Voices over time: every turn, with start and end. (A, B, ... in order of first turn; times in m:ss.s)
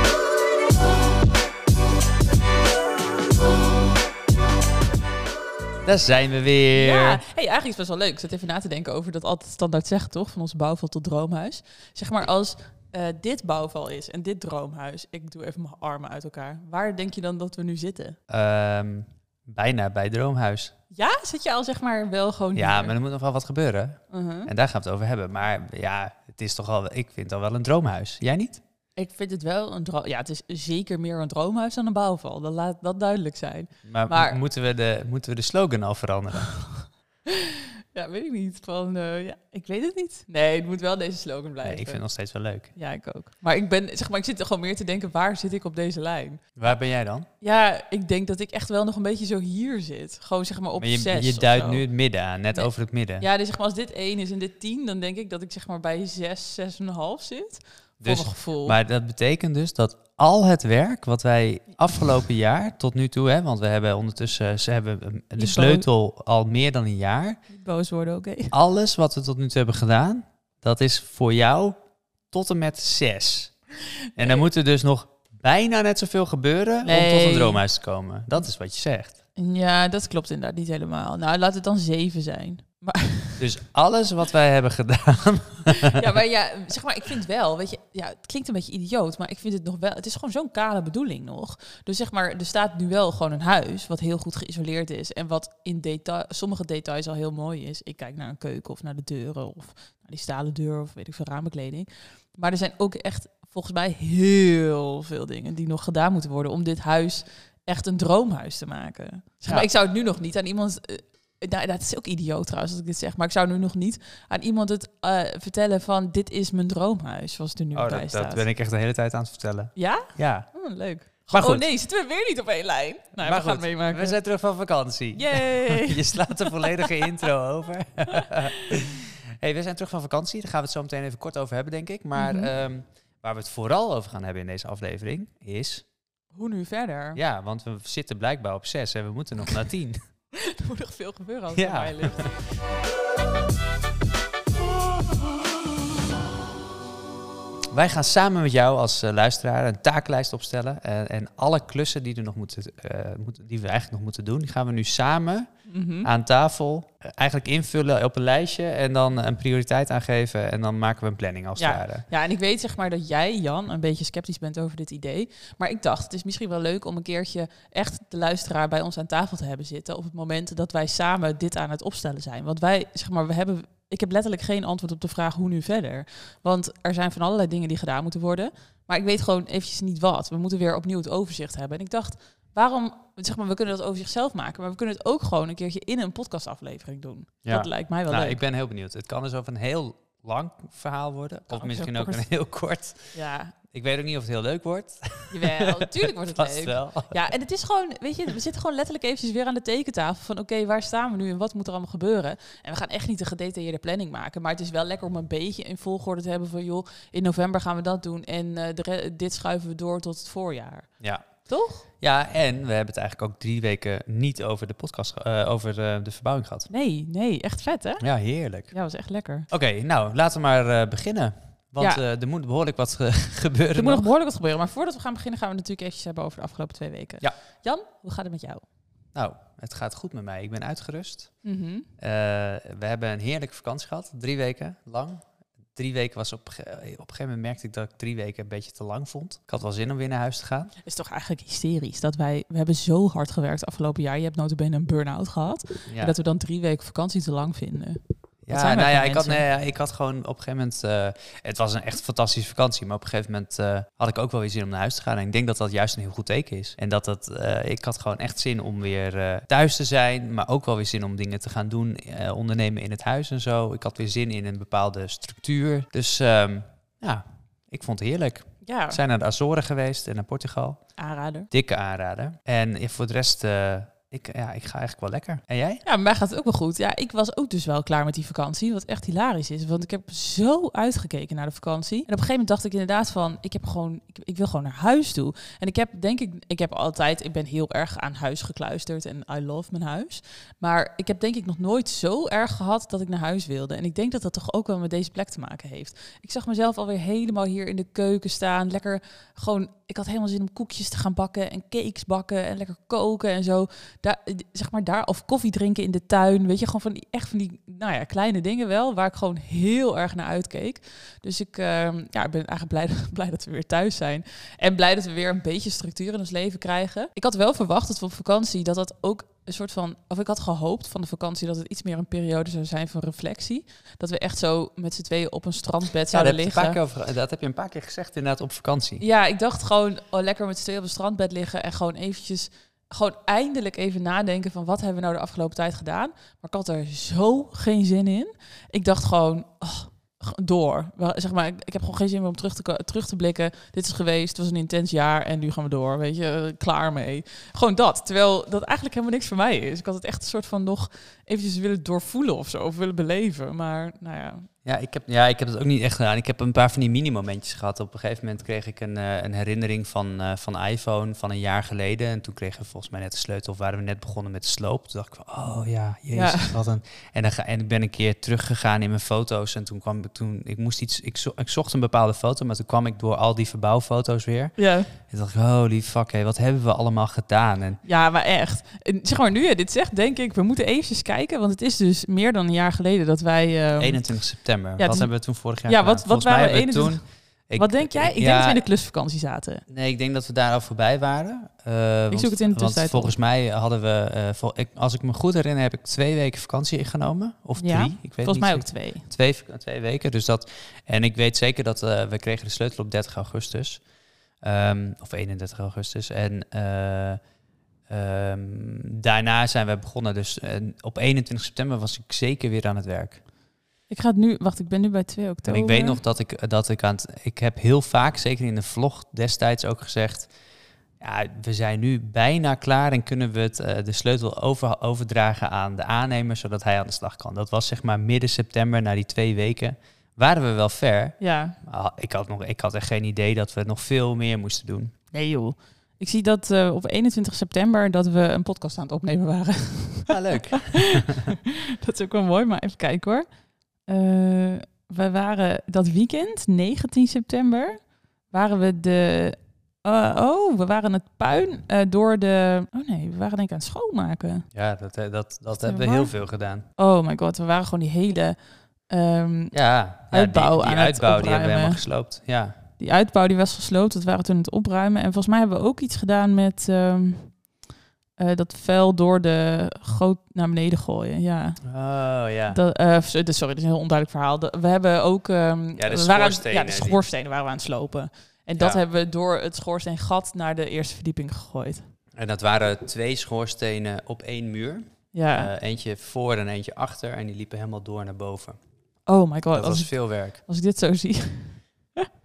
0:05.9-0:07.2 A
0:06.8-0:18.2 B
0:18.3-0:20.7 A
0:20.9-0:22.9 B
0:22.6-0:28.6 A
0:24.1-0:24.5 B
0:29.0-0:34.4 B
0:33.9-0:36.6 A
0:37.3-0:42.0 B
0:41.6-0:42.7 A
0:42.8-0:46.7 B
0:46.6-0:47.3 A
0:47.4-0:51.8 B
0:50.8-0:53.3 A
0:52.6-0:58.8 B
0:58.0-1:07.4 A
1:05.4-1:05.8 B
1:07.5-1:08.5 B
1:08.5-1:11.8 A
1:12.3-1:13.5 A
1:14.2-1:19.2 A
1:16.8-1:17.6 B
1:19.4-1:23.4 B
1:23.4-1:26.0 A
1:25.7-1:58.4 B
1:57.8-2:00.5 A
1:59.8-2:04.2 B
2:01.3-2:01.6 A
2:03.2-2:15.8 A
2:05.1-2:07.1 B
2:12.2-2:12.5 B
2:16.3-2:17.2 B
2:17.2-2:20.0 A
2:20.3-2:22.3 B
2:21.5-2:22.3 A
2:27.7-2:35.5 A
2:35.7-2:36.1 B
2:36.0-2:42.1 A
2:41.6-3:08.4 B
3:07.4-3:13.2 A
3:11.5-3:12.3 B
3:13.1-3:13.6 B
3:13.7-3:17.3 A
3:15.3-3:30.9 B
3:31.0-3:31.3 A
3:31.5-3:31.8 B
3:32.0-3:36.7 A
3:36.7-3:38.0 B
3:38.0-3:38.7 A
3:38.7-3:39.5 B
3:39.5-3:44.1 A
3:43.8-3:48.6 B
3:49.2-3:51.3 A
3:51.4-3:51.9 B
3:52.0-3:55.2 A
3:55.8-4:00.7 A
4:00.8-4:09.4 B
4:05.9-4:06.1 A
4:08.5-4:30.8 A
4:28.6-4:29.0 B
4:31.0-4:31.5 B
4:31.5-4:35.8 A
4:35.8-5:26.8 B
5:26.1-5:29.0 A
5:29.0-5:54.5 B
5:54.6-6:17.8 A
6:06.1-6:06.6 B
6:14.6-6:14.9 B
6:17.8-6:24.0 B
6:23.8-6:28.6 A
6:24.8-6:25.1 B
6:25.6-6:27.0 B
6:27.6-6:29.6 B
6:29.7-6:43.8 A
6:32.1-6:33.1 B
6:37.6-6:39.0 B
6:44.4-6:47.2 A
6:47.9-6:53.2 A
6:53.9-6:56.0 B
6:55.5-7:00.3 A
7:01.0-7:14.9 A
7:11.2-7:11.6 B
7:15.1-7:23.3 B
7:20.1-7:21.3 A
7:23.9-7:27.8 B
7:28.3-7:34.5 B
7:34.5-7:36.6 A
7:35.6-7:36.1 B
7:36.8-7:38.4 B
7:38.9-7:39.6 B
7:39.5-7:42.6 A
7:40.1-7:41.8 B
7:42.8-7:47.4 B
7:48.2-7:51.6 B
7:51.6-7:52.6 A
7:52.5-8:01.9 B
7:55.8-7:57.0 A
8:02.2-8:08.6 A
8:05.1-8:05.5 B
8:09.1-8:12.1 B
8:09.5-8:10.4 A